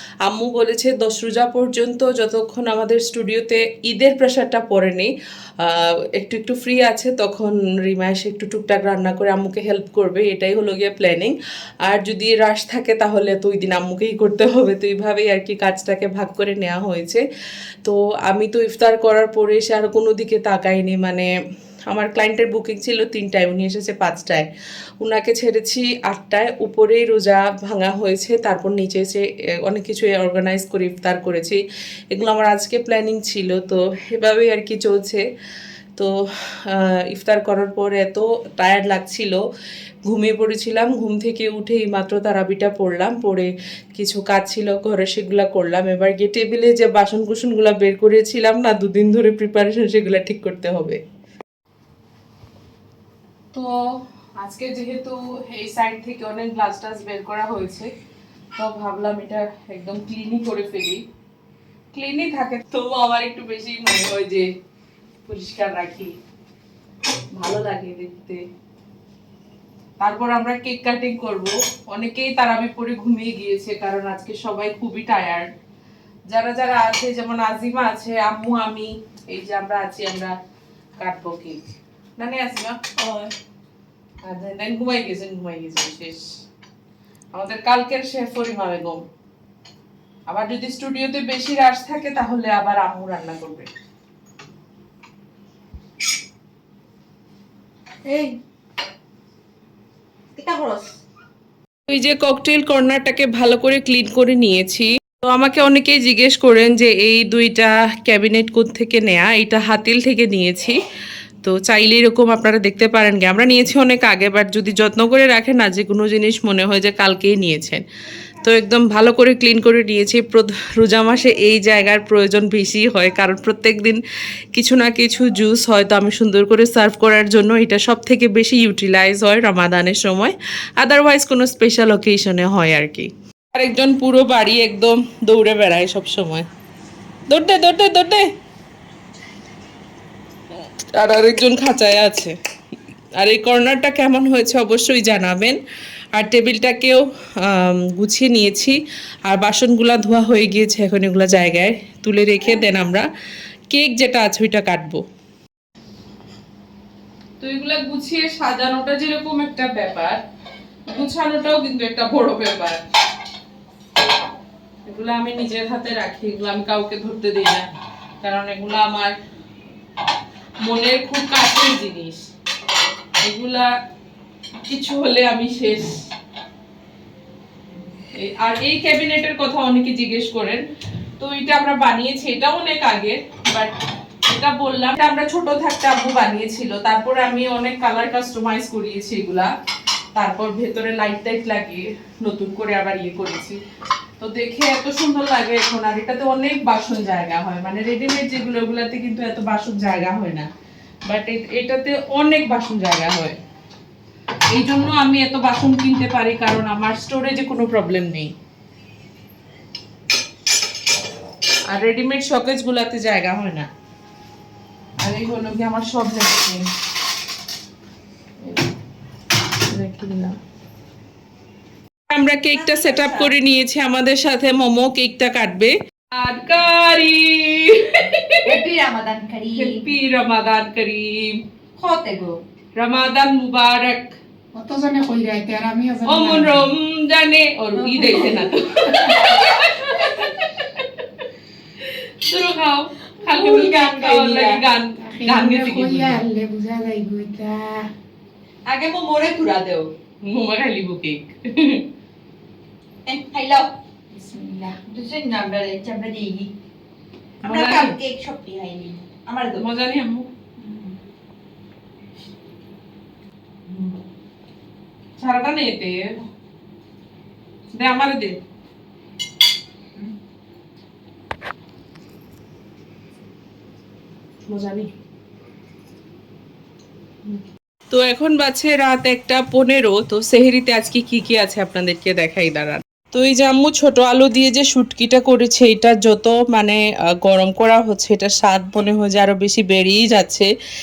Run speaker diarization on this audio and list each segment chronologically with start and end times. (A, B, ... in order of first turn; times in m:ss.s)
0:00.2-0:17.2 A
0:17.8-0:21.3 A
0:21.9-0:24.5 A
0:25.0-0:31.6 A
0:32.1-0:35.2 A
0:36.7-0:39.4 A
0:40.1-0:51.0 A
0:53.5-0:53.8 A
0:54.4-0:57.9 A
0:58.6-1:01.0 A
1:01.9-1:04.5 A
1:05.2-1:06.2 A
1:07.3-1:08.4 A
1:10.0-1:15.5 A
1:16.3-1:20.3 A
1:21.0-1:21.6 A
1:22.2-1:22.9 A
1:24.2-1:26.3 A
1:27.3-1:29.0 A
1:30.3-1:33.7 A
1:38.1-1:38.4 B
1:40.4-1:40.9 B
1:41.9-1:50.8 A
1:51.4-1:57.8 A
1:58.4-2:04.0 A
2:04.5-2:16.5 A
2:17.3-2:18.3 A
2:20.9-2:22.4 A
2:23.2-2:25.6 A
2:26.2-2:33.1 A
2:33.7-2:35.0 A
2:37.4-2:40.2 A
2:40.9-2:42.8 A
2:44.9-2:47.7 A
2:48.2-2:49.2 A
2:50.6-2:52.3 A
2:53.2-2:53.7 A
2:54.7-2:56.0 A
2:58.2-3:00.6 A
3:01.2-3:03.7 A
3:04.3-3:09.5 A
3:10.2-3:13.6 A
3:14.2-3:20.5 A
3:21.1-3:23.4 A
3:24.5-3:28.3 A
3:31.7-3:33.7 A
3:35.0-3:36.7 A
3:38.4-3:38.7 A
3:39.6-3:40.3 A
3:42.1-3:48.6 A
3:42.5-3:43.3 B
3:48.5-3:49.9 B
3:49.5-3:51.4 A
3:51.8-3:52.4 B
3:52.8-3:54.2 A
3:54.5-3:56.7 C
3:56.0-4:01.0 A
3:57.8-3:58.6 B
4:01.8-4:06.2 A
4:03.3-4:04.6 B
4:05.0-4:07.8 C
4:08.7-4:09.9 B
4:10.2-4:11.9 A
4:13.0-4:16.5 B
4:14.3-4:14.6 C
4:17.4-4:19.6 B
4:17.4-4:18.0 A
4:19.5-4:20.3 A
4:25.2-4:26.1 A
4:27.8-4:28.4 A
4:34.5-4:34.9 A
4:37.9-4:50.5 A